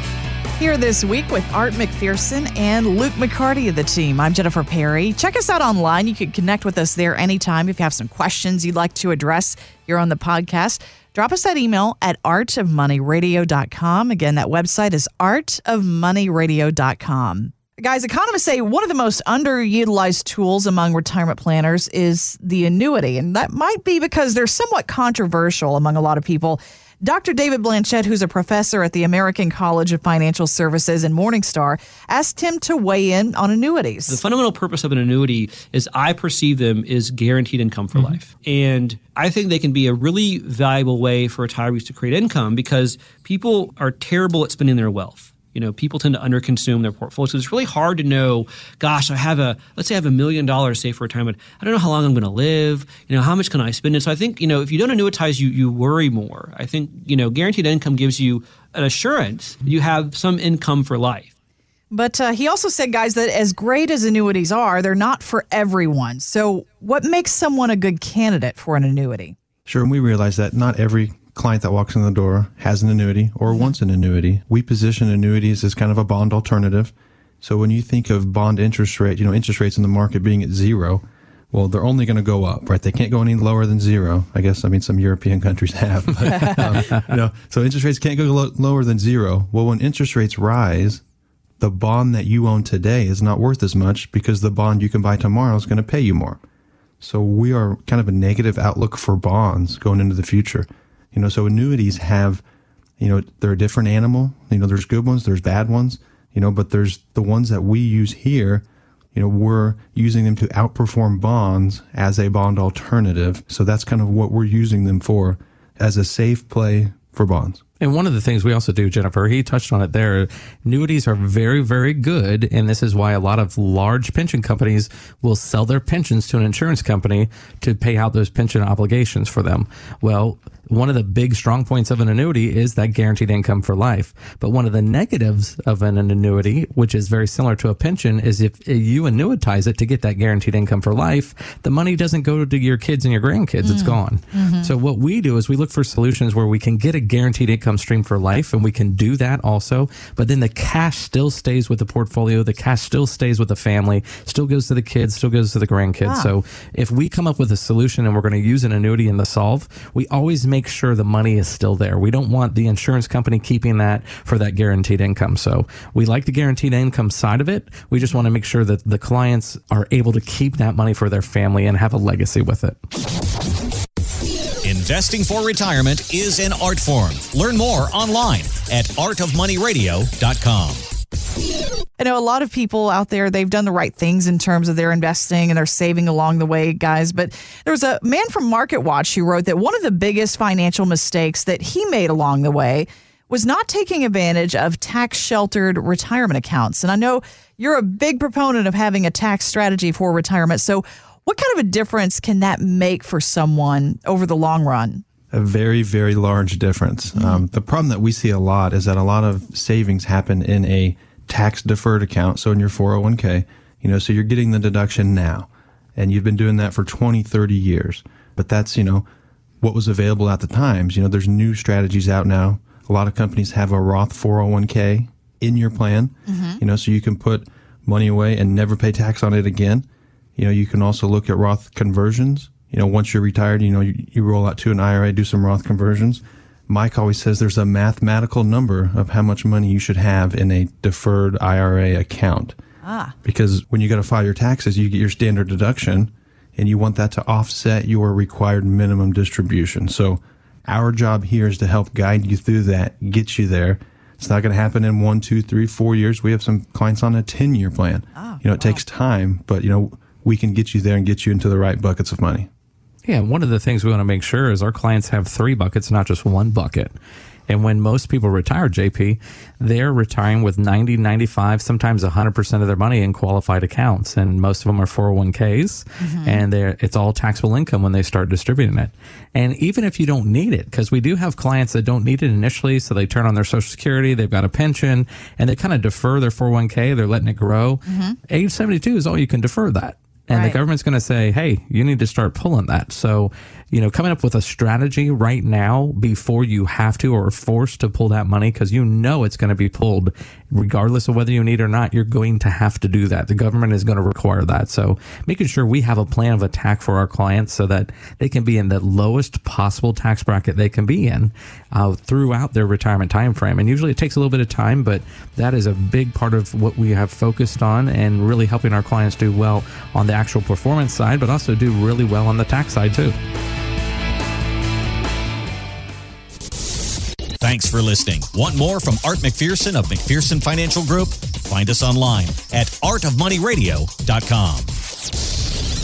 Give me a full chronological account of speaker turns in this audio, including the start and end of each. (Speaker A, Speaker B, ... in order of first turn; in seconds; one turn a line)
Speaker A: 0.6-34.2
Speaker B: 34.1-61.3
Speaker A: 61.9-69.3
Speaker C: 69.7-91.0
Speaker C: 91.6-96.4
Speaker C: 97.0-102.4
Speaker C: 103.0-117.6
Speaker D: 117.8-172.8
Speaker A: 143.6-144.7
Speaker A: 156.0-156.3
Speaker E: 174.6-180.9
Speaker A: 182.0-205.0
Speaker C: 205.3-219.1
Speaker C: 219.6-229.8
Speaker A: 226.3-226.6
Speaker C: 230.4-242.6
Speaker A: 242.8-243.1
Speaker C: 243.2-262.5
Speaker A: 258.2-258.8
Speaker D: 263.1-266.9
Speaker D: 267.5-323.2
Speaker A: 276.0-276.4
Speaker A: 287.9-288.2
Speaker A: 290.3-290.6
Speaker E: 327.4-334.7